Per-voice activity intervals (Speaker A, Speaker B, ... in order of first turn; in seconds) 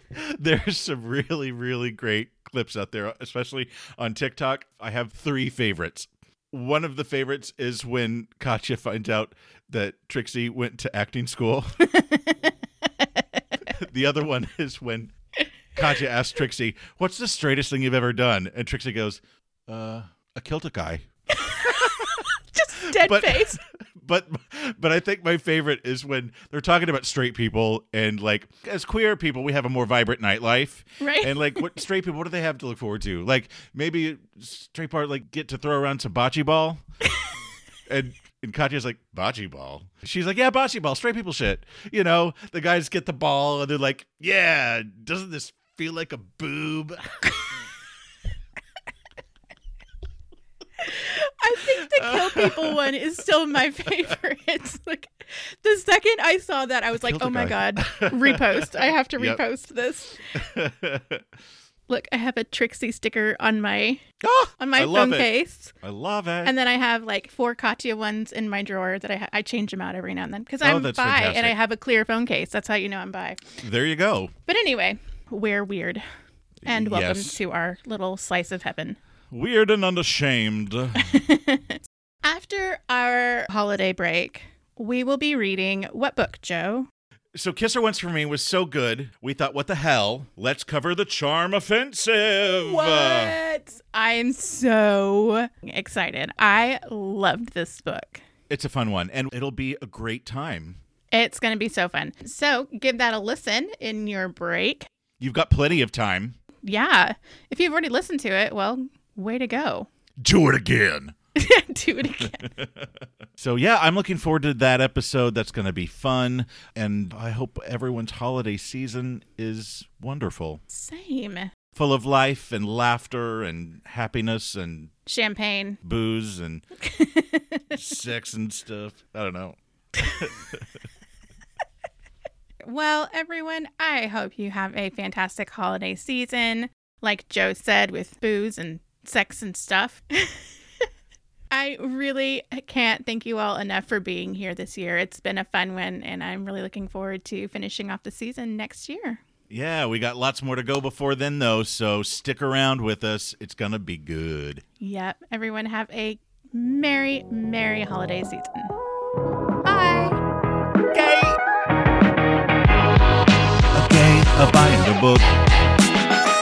Speaker A: 0.1-11.8, 13.7-15.1, 15.7-21.1, 21.6-22.1, 22.9-36.8, 37.9-47.2, 51.8-52.9, 57.0-59.4, 60.3-61.2, 64.2-65.3, 65.8-66.5, 70.6-71.5, 73.6-74.3, 76.6-77.4, 79.3-81.2, 87.3-93.3, 98.5-100.8, 105.2-106.3, 110.2-111.1, 112.2-120.6, 121.7-124.9, 125.8-126.6, 127.7-130.6, 149.5-154.6, 159.7-160.2, 160.9-161.4, 163.7-165.3
Speaker B: 11.9-12.5, 13.0-13.4, 21.3-23.6, 31.0-31.6, 50.8-60.2, 61.9-64.0, 64.6-65.7, 66.4-73.4, 74.5-76.0, 76.6-79.0, 81.0-86.9, 92.6-98.2, 101.1-104.9, 106.6-109.9, 111.3-112.5, 120.7-121.5, 125.0-125.8, 126.8-127.7, 132.6-140.5, 141.5-149.2, 154.8-158.7, 159.7-160.0